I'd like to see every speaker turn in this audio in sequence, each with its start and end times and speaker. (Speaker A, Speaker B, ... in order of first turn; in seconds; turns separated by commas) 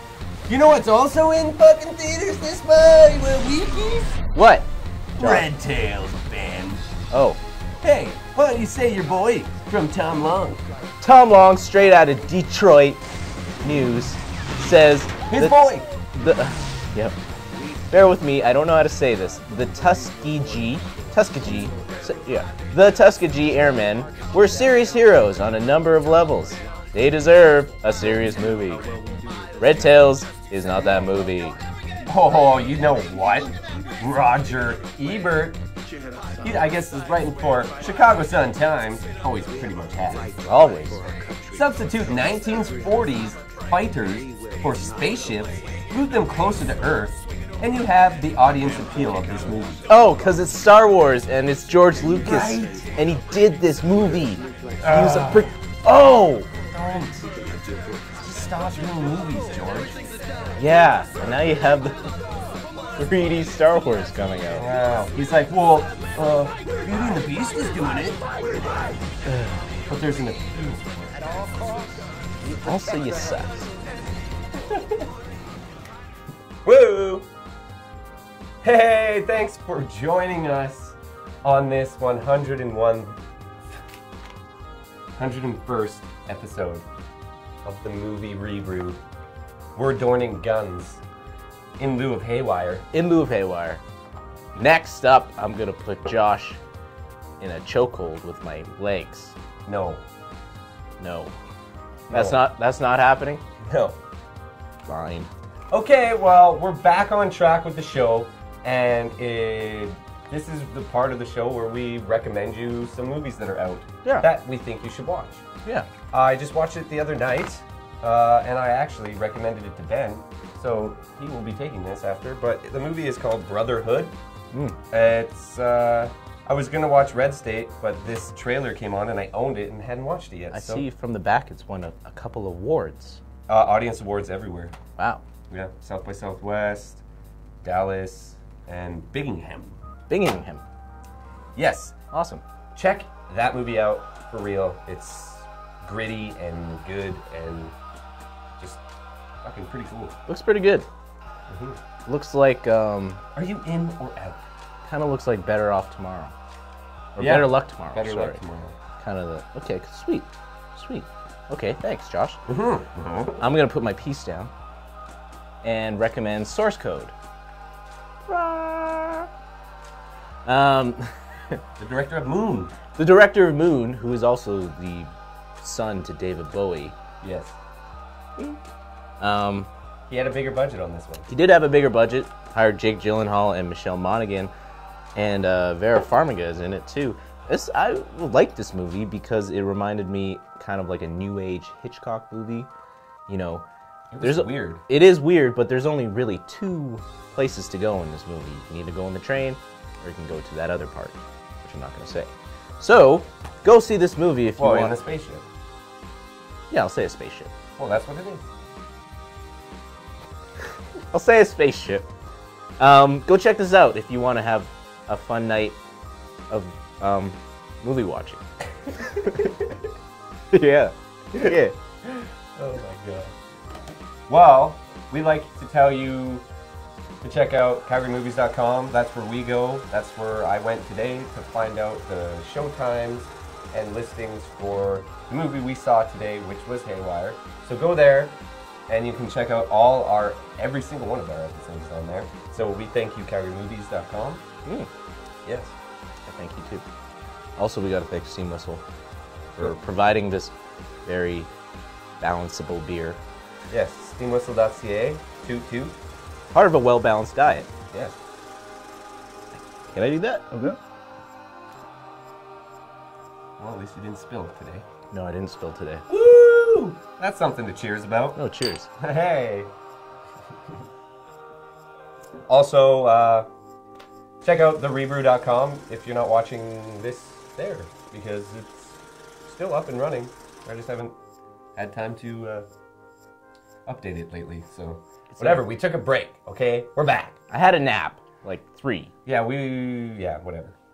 Speaker A: 0.5-4.2, Speaker B: 4.3-5.5, Speaker A: 5.2-6.8, Speaker B: 7.1-7.4, Speaker A: 7.8-10.6, Speaker B: 11.0-13.0, Speaker B: 13.6-15.6, Speaker A: 15.3-15.9, Speaker B: 16.1-17.1, Speaker B: 17.9-28.9, Speaker B: 29.6-31.6, Speaker A: 32.1-35.6, Speaker A: 36.4-40.3, Speaker B: 40.4-41.1, Speaker A: 41.5-49.9, Speaker B: 49.9-56.5, Speaker A: 52.1-52.9, Speaker A: 54.8-55.5, Speaker A: 56.7-57.3, Speaker A: 58.2-60.0, Speaker B: 60.6-62.0, Speaker B: 63.0-64.7, Speaker A: 64.6-68.3, Speaker A: 69.9-71.0, Speaker B: 72.5-73.6, Speaker A: 76.6-77.3, Speaker A: 78.6-83.2, Speaker A: 85.2-86.8, Speaker A: 87.6-89.0, Speaker A: 89.7-91.0, Speaker A: 91.8-92.8, Speaker B: 92.9-93.8, Speaker B: 94.5-96.6, Speaker B: 97.4-99.3, Speaker A: 99.7-100.0, Speaker B: 101.0-101.3, Speaker A: 102.1-102.4, Speaker B: 102.1-103.4, Speaker A: 103.6-104.0, Speaker B: 104.8-105.3, Speaker A: 105.7-115.4, Speaker A: 116.1-124.1, Speaker B: 124.5-124.8, Speaker A: 124.9-130.9, Speaker B: 130.5-133.2, Speaker A: 133.5-134.7, Speaker B: 135.0-135.2, Speaker A: 135.5-137.0, Speaker A: 137.6-139.8, Speaker B: 140.1-140.6, Speaker A: 141.6-141.9, Speaker B: 142.1-142.4, Speaker A: 142.7-147.7, Speaker A: 149.4-150.2, Speaker B: 150.3-150.9, Speaker A: 151.5-151.8, Speaker B: 152.1-153.2, Speaker A: 153.3-154.4, Speaker B: 154.8-156.3, Speaker B: 157.1-158.4, Speaker A: 157.2-158.8, Speaker B: 159.0-162.4, Speaker A: 162.5-163.3, Speaker B: 163.4-164.5, Speaker B: 165.6-167.1, Speaker B: 168.2-169.3, Speaker B: 170.4-171.6, Speaker A: 171.8-172.7, Speaker B: 172.9-176.9, Speaker A: 177.2-177.6, Speaker B: 179.2-179.7, Speaker A: 180.1-181.3, Speaker B: 181.3-184.5, Speaker B: 185.1-192.7, Speaker B: 193.3-193.6, Speaker A: 194.1-194.8, Speaker B: 194.2-205.0, Speaker A: 204.6-205.4, Speaker B: 206.7-207.5, Speaker A: 207.8-208.5, Speaker B: 211.1-212.1, Speaker B: 212.8-215.8, Speaker B: 216.5-218.4, Speaker B: 219.1-219.6, Speaker A: 219.3-219.7, Speaker B: 220.5-221.7, Speaker A: 222.6-223.3, Speaker A: 224.3-226.4, Speaker A: 227.2-238.3, Speaker A: 238.9-244.4, Speaker A: 245.4-245.7, Speaker B: 246.3-246.8, Speaker B: 247.6-248.8, Speaker B: 249.6-250.5, Speaker B: 251.1-251.5, Speaker B: 252.2-253.2, Speaker A: 253.7-255.9, Speaker B: 256.5-257.7, Speaker A: 257.9-258.2, Speaker B: 259.9-260.8, Speaker A: 263.6-264.9, Speaker B: 265.1-266.0, Speaker A: 266.1-268.4, Speaker B: 268.4-268.9, Speaker A: 269.0-269.7, Speaker A: 272.5-273.5, Speaker A: 274.4-281.1, Speaker A: 281.8-282.7, Speaker A: 283.9-287.4, Speaker B: 285.4-285.6, Speaker B: 287.5-289.1, Speaker A: 289.2-290.8